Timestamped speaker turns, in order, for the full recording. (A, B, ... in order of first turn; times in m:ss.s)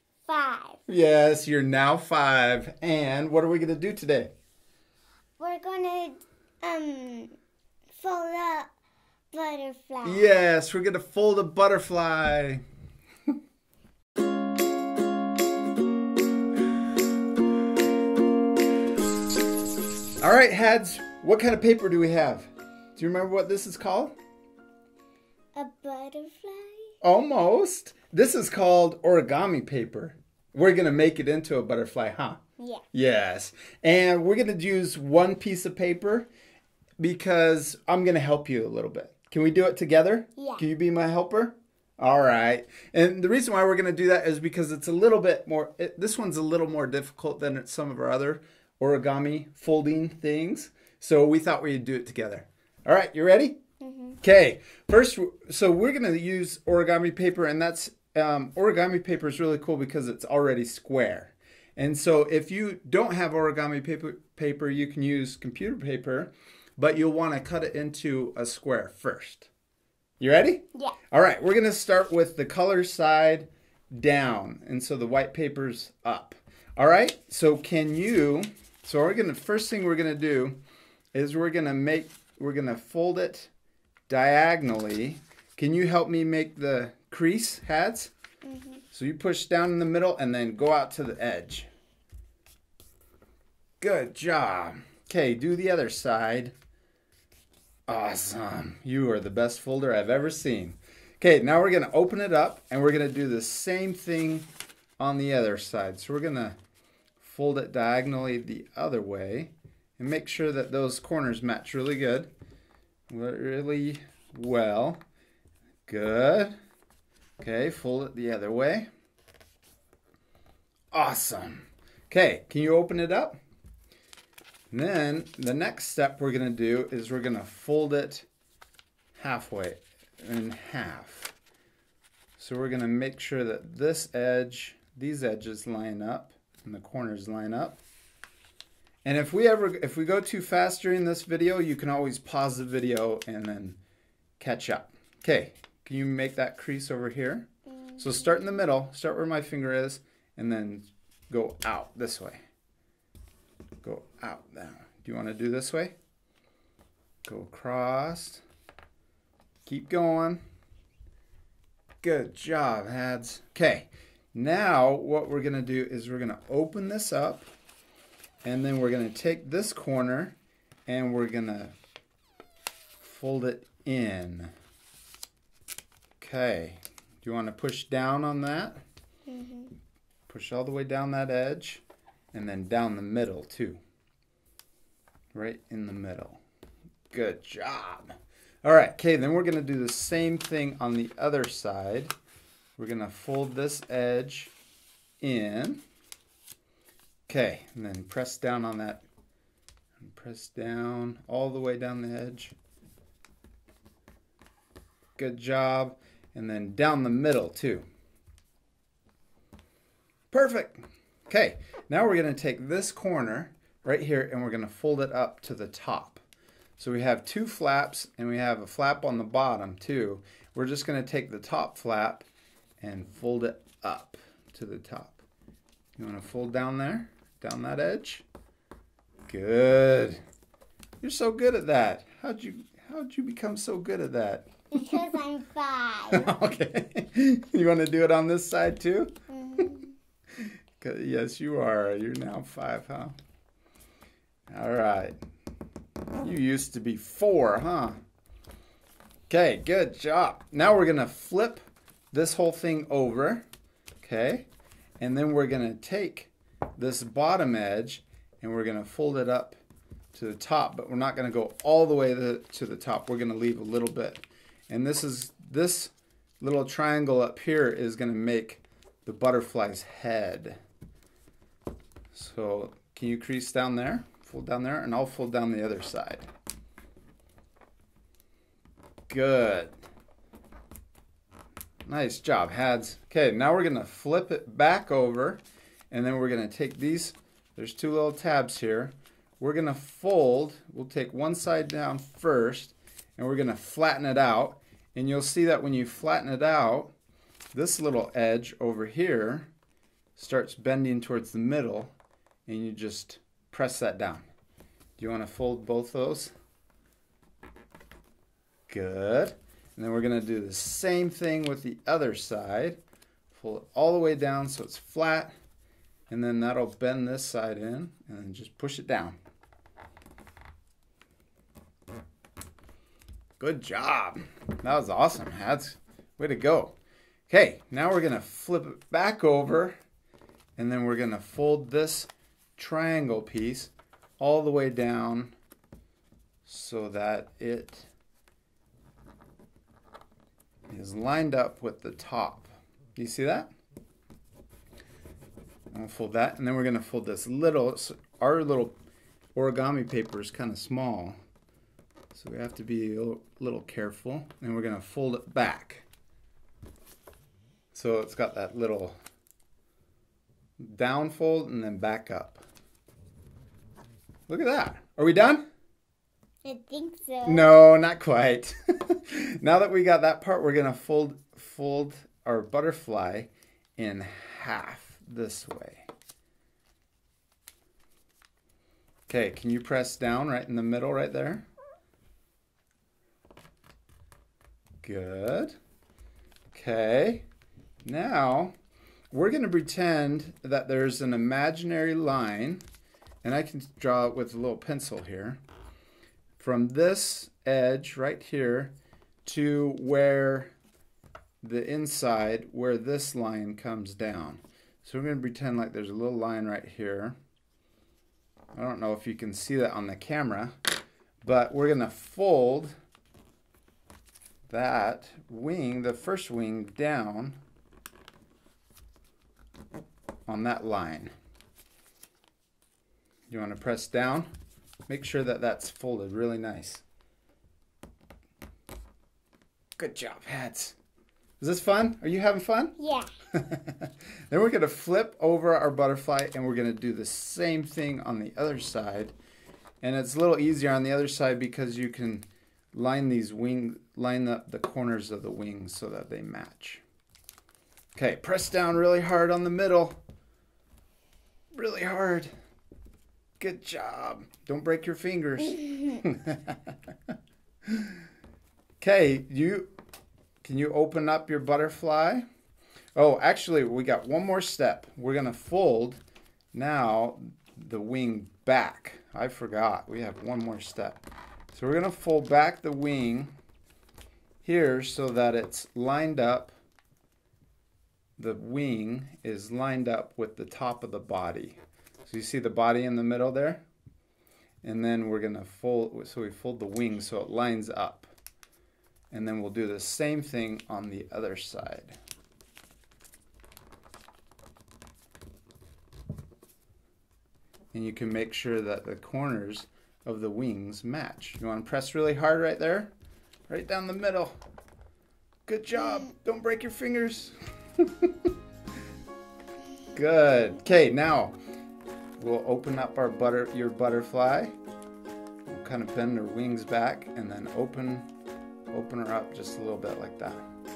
0:00.3-0:00.8 A
0:00.9-0:04.3 B
0:05.4-0:07.4 A
0:08.0-0:08.7 A
0:09.3-0:10.3 A
0:10.0-0:12.6 B
0:20.2-0:24.2 B
0:25.6-0:27.0 A
0:27.0-0:32.4 B
0:32.6-0:32.8 A
0:32.9-0:36.3 B
0:37.0-0:53.6 B
0:40.4-0:40.6 A
0:53.8-0:54.2 A
0:54.2-1:09.5 B
1:10.2-1:20.6 B
1:21.1-1:23.5 B
1:24.1-1:28.1 B
1:28.4-1:28.8 A
1:28.9-1:31.7 B
1:33.8-1:36.5 B
1:37.9-1:44.5 B
1:45.0-1:46.6 B
1:47.2-1:52.3 B
1:53.1-1:55.0 B
1:55.9-1:56.6 B
1:57.4-1:58.9 B
2:00.9-2:03.4 B
2:04.7-2:08.3 B
2:09.2-2:11.3 B
2:12.4-2:17.8 B
2:19.0-2:23.8 B
2:24.4-2:27.5 B
2:27.8-2:28.4 A
2:28.0-2:32.4 B
2:33.8-2:35.9 B
2:37.2-2:38.4 B
2:39.7-2:40.4 B
2:42.0-2:47.5 B
2:48.4-2:50.4 B
2:50.9-2:51.8 B
2:53.0-2:54.5 B
2:56.2-2:58.8 B
2:59.3-2:59.7 A
3:00.3-3:01.8 B
3:02.3-3:03.8 B
3:05.3-3:06.4 B
3:07.1-3:12.1 B
3:12.8-3:14.5 B
3:15.2-3:15.8 B
3:17.3-3:19.0 B
3:20.0-3:22.6 B
3:25.2-3:27.8 B
3:30.3-3:36.2 B
3:36.8-3:42.2 B
3:42.8-3:45.2 B
3:46.0-3:48.2 B
3:49.3-3:50.2 B
3:51.0-3:55.0 B
3:54.7-3:56.4 A
3:56.1-3:59.7 B
3:59.3-4:00.0 A
4:00.4-4:03.2 B
4:04.5-4:05.2 B
4:06.2-4:08.0 B
4:09.3-4:13.4 B
4:14.0-4:14.5 B
4:15.0-4:19.6 B
4:20.1-4:30.6 B
4:32.1-4:36.3 B
4:39.1-4:39.8 B
4:41.9-4:56.9 B
4:57.5-4:59.5 B
5:00.2-5:01.9 B
5:02.5-5:04.2 B
5:05.0-5:06.3 B
5:08.7-5:12.8 B
5:13.3-5:15.3 B
5:16.1-5:19.2 B
5:23.4-5:26.8 B
5:27.3-5:29.8 B
5:30.6-5:35.3 B
5:36.4-5:37.9 B
5:40.7-5:43.5 B
5:45.7-5:48.7 B
5:49.4-5:51.2 B
5:52.1-5:55.8 B
5:57.7-5:59.0 B
6:00.6-6:02.4 B
6:04.3-6:05.4 B
6:06.4-6:07.6 A
6:07.3-6:15.9 B
6:19.1-6:21.4 B
6:24.8-6:25.6 B
6:26.5-6:27.2 B
6:27.8-6:28.5 B
6:29.1-6:32.6 B
6:33.2-6:35.4 B
6:36.4-6:38.7 B
6:39.2-6:40.5 B
6:41.4-6:47.2 B
6:48.6-6:50.6 B
6:51.2-6:52.8 B
6:54.5-6:57.4 B
7:00.3-7:01.1 B
7:03.3-7:04.3 B
7:04.9-7:06.8 B
7:09.8-7:10.8 B
7:11.4-7:12.8 B
7:12.8-7:13.1 A
7:13.3-7:19.1 B
7:19.8-7:26.8 B
7:28.0-7:30.0 B
7:31.5-7:32.3 B
7:33.4-7:36.7 B
7:37.7-7:37.9 B
7:38.8-7:39.7 B
7:40.4-7:42.2 B
7:43.0-7:46.0 B
7:46.5-7:53.3 B
7:54.4-7:56.5 B
7:58.2-8:03.6 B
8:04.6-8:08.1 B
8:09.1-8:12.0 B
8:17.7-8:22.9 B
8:23.5-8:24.4 B
8:25.5-8:28.3 B
8:29.9-8:31.4 B
8:32.2-8:34.6 B
8:35.5-8:38.1 B
8:38.7-8:40.4 B